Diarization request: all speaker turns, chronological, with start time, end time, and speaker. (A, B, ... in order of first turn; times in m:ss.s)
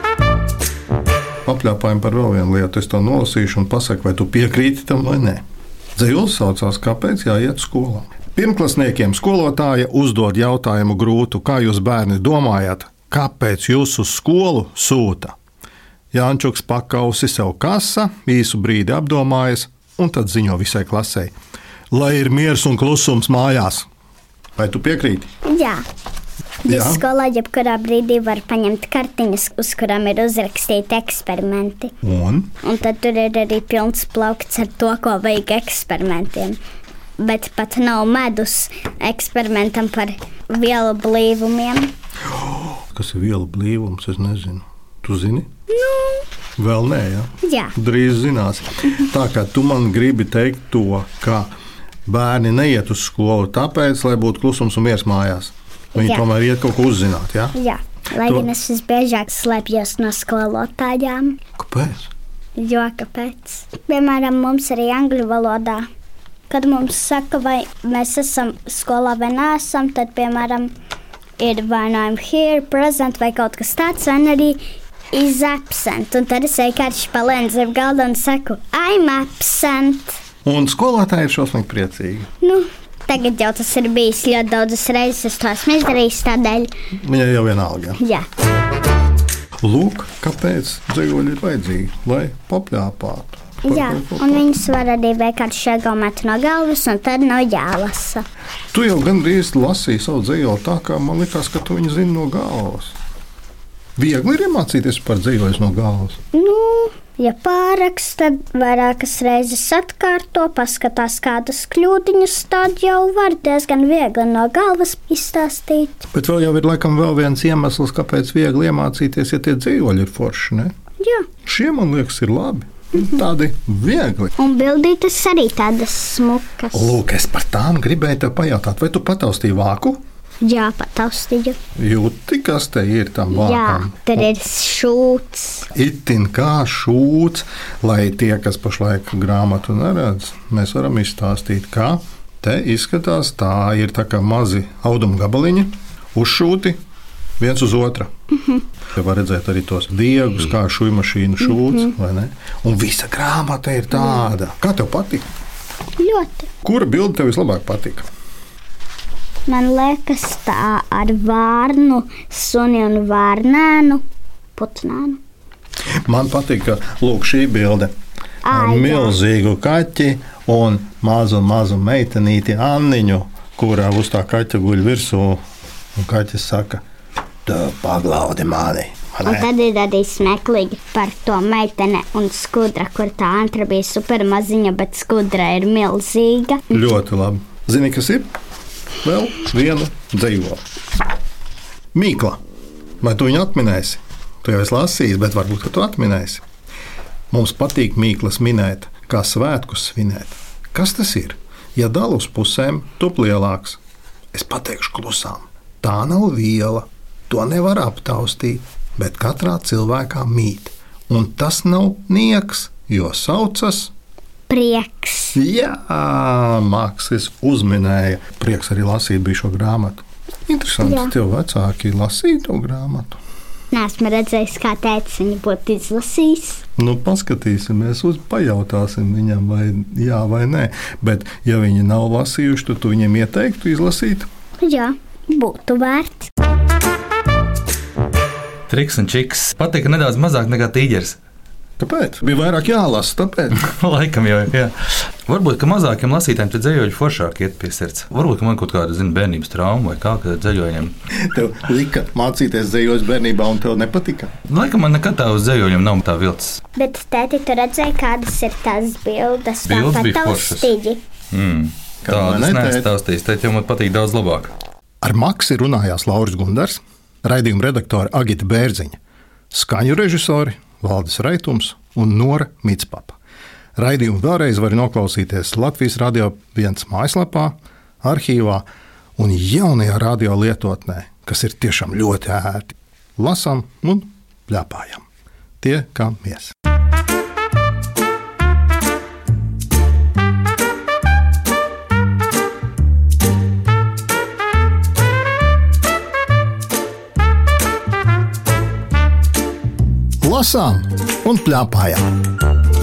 0:01.4-0:05.4 A
0:05.9-0:15.3 A
0:16.1-0:21.3 A
0:21.9-0:23.8 A
0:24.6-0:25.3 A
0:25.4-0:25.8 B
0:26.6-0:31.9 B
0:26.7-0:27.0 A
0:32.0-0:32.5 A
0:32.6-0:36.6 B
0:37.2-0:41.9 B
0:42.6-0:45.5 A
0:45.7-0:46.2 B
0:46.6-0:51.5 A
0:47.4-0:47.7 B
0:52.0-0:57.6 A
0:55.9-0:56.2 B
0:57.5-1:01.4 B
0:58.2-0:58.5 A
1:01.6-1:02.1 A
1:02.6-1:05.8 B
1:06.5-1:10.7 B
1:11.4-1:14.6 B
1:15.1-1:20.2 B
1:20.4-1:22.3 A
1:22.4-1:26.7 B
1:27.0-1:28.0 A
1:28.0-1:28.2 B
1:29.6-1:34.4 A
1:33.6-1:38.2 B
1:38.7-1:43.0 A
1:44.0-1:46.2 A
1:46.3-1:56.1 B
1:56.1-2:00.7 A
2:01.0-2:01.3 B
2:01.4-2:04.3 A
2:04.4-2:07.0 B
2:06.7-2:10.0 A
2:10.4-2:11.6 B
2:11.8-2:14.3 A
2:13.3-2:15.7 B
2:15.7-2:26.8 A
2:27.4-2:28.1 A
2:28.3-2:28.6 B
2:28.9-2:35.2 A
2:31.4-2:31.9 B
2:36.0-2:36.5 B
2:36.6-2:38.0 A
2:39.5-2:44.0 B
2:44.6-2:45.2 B
2:46.0-2:47.9 A
2:48.4-2:49.2 B
2:48.5-2:55.4 A
2:56.0-2:56.8 A
2:57.4-2:59.5 A
2:59.2-3:06.7 B
3:06.7-3:08.3 A
3:09.0-3:10.6 A
3:11.9-3:12.4 A
3:13.0-3:16.4 A
3:17.3-3:23.8 A
3:24.3-3:33.9 A
3:34.5-3:35.4 B
3:35.3-3:43.2 A
3:40.8-3:41.1 B
3:43.7-3:46.6 B
3:46.8-3:54.3 A
3:54.6-3:56.3 B
3:58.7-4:01.2 C
4:01.8-4:03.6 A
4:03.6-4:04.7 C
4:05.2-4:10.9 C
4:11.2-4:14.3 A
4:14.5-4:16.6 C
4:16.8-4:21.0 B
4:19.6-4:20.7 C
4:21.3-4:24.5 C
4:22.0-4:22.9 A
4:25.0-4:29.0 A
4:29.5-4:33.2 A
4:33.8-4:38.6 A
4:39.2-4:45.0 A
4:45.6-4:46.5 A
5:00.2-5:02.1 A